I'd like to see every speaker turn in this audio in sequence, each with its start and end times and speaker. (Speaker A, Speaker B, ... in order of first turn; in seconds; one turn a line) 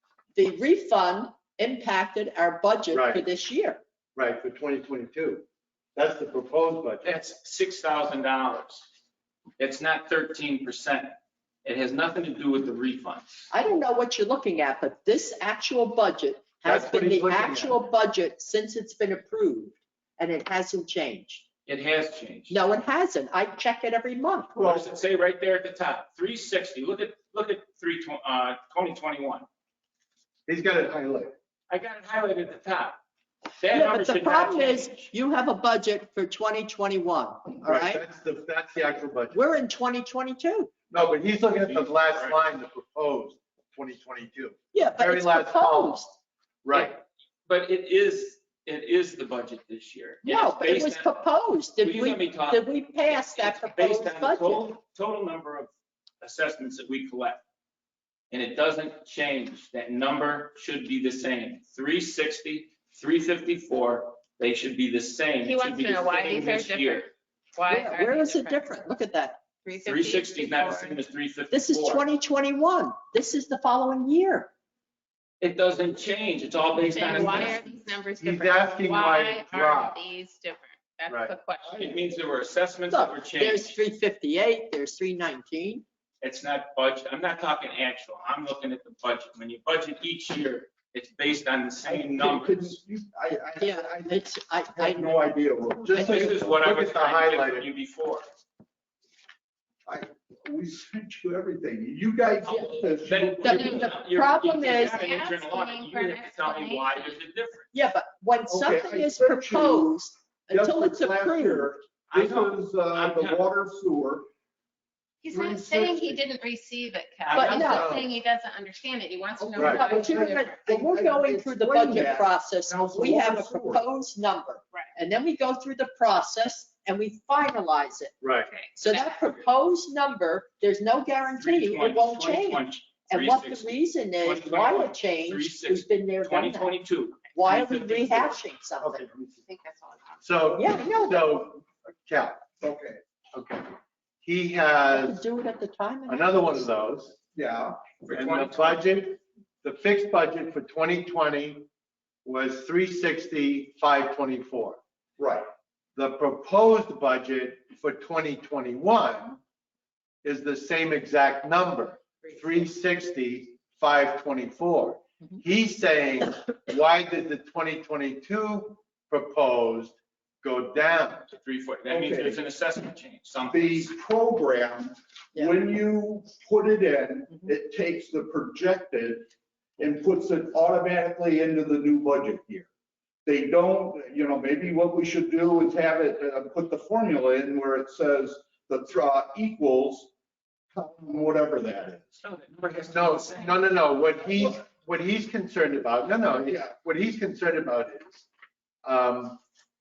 Speaker A: 0.3-3.8
Speaker B: 2.9-3.2
Speaker B: 4.2-5.4
Speaker B: 6.0-7.0
Speaker C: 7.0-8.8
Speaker C: 9.6-11.1
Speaker C: 11.6-13.5
Speaker A: 13.5-21.4
Speaker B: 16.6-17.8
Speaker C: 21.7-22.6
Speaker A: 22.5-24.5
Speaker C: 24.5-29.5
Speaker B: 30.5-31.3
Speaker C: 31.7-33.0
Speaker C: 33.6-35.1
Speaker A: 33.7-38.0
Speaker B: 37.6-39.4
Speaker A: 39.3-40.7
Speaker B: 40.9-46.0
Speaker C: 41.5-42.4
Speaker A: 44.7-46.1
Speaker B: 46.6-46.9
Speaker C: 46.7-51.1
Speaker A: 50.2-54.7
Speaker C: 51.8-57.4
Speaker C: 58.3-67.1
Speaker D: 65.4-68.9
Speaker A: 67.7-69.4
Speaker D: 69.6-71.0
Speaker C: 69.8-72.0
Speaker A: 71.5-74.5
Speaker C: 75.4-77.6
Speaker D: 76.7-81.9
Speaker B: 78.2-80.0
Speaker B: 81.1-81.3
Speaker E: 81.7-81.9
Speaker C: 81.8-83.8
Speaker A: 82.9-85.8
Speaker C: 86.2-92.8
Speaker E: 91.8-96.6
Speaker A: 93.6-95.3
Speaker B: 95.9-97.7
Speaker C: 95.9-98.2
Speaker E: 99.8-103.8
Speaker C: 103.0-107.7
Speaker A: 103.4-105.2
Speaker D: 103.5-103.9
Speaker D: 104.7-107.2
Speaker A: 107.7-111.7
Speaker E: 108.5-109.9
Speaker E: 110.5-114.3
Speaker C: 112.1-113.4
Speaker D: 115.2-120.5
Speaker E: 115.3-116.2
Speaker C: 117.3-118.0
Speaker A: 117.3-118.0
Speaker B: 117.6-118.1
Speaker E: 119.4-123.8
Speaker B: 119.6-119.8
Speaker A: 119.7-128.1
Speaker B: 128.2-128.5
Speaker D: 128.4-129.4
Speaker A: 128.8-136.8
Speaker C: 131.3-138.4
Speaker A: 137.3-139.0
Speaker B: 138.8-139.3
Speaker D: 139.4-140.2
Speaker B: 140.2-142.4
Speaker A: 140.5-141.4
Speaker E: 142.6-143.0
Speaker B: 143.3-145.2
Speaker A: 144.9-146.7
Speaker B: 146.1-147.1
Speaker E: 147.3-147.8
Speaker C: 148.0-148.9
Speaker B: 148.1-151.7
Speaker B: 152.2-154.8
Speaker E: 155.2-155.5
Speaker B: 155.9-159.4
Speaker B: 160.2-171.3
Speaker C: 171.4-173.9
Speaker E: 171.9-172.4
Speaker E: 173.5-182.7
Speaker E: 183.2-190.1
Speaker E: 190.7-192.2
Speaker C: 192.2-193.7
Speaker B: 192.7-198.2
Speaker E: 196.3-196.7
Speaker B: 198.8-199.4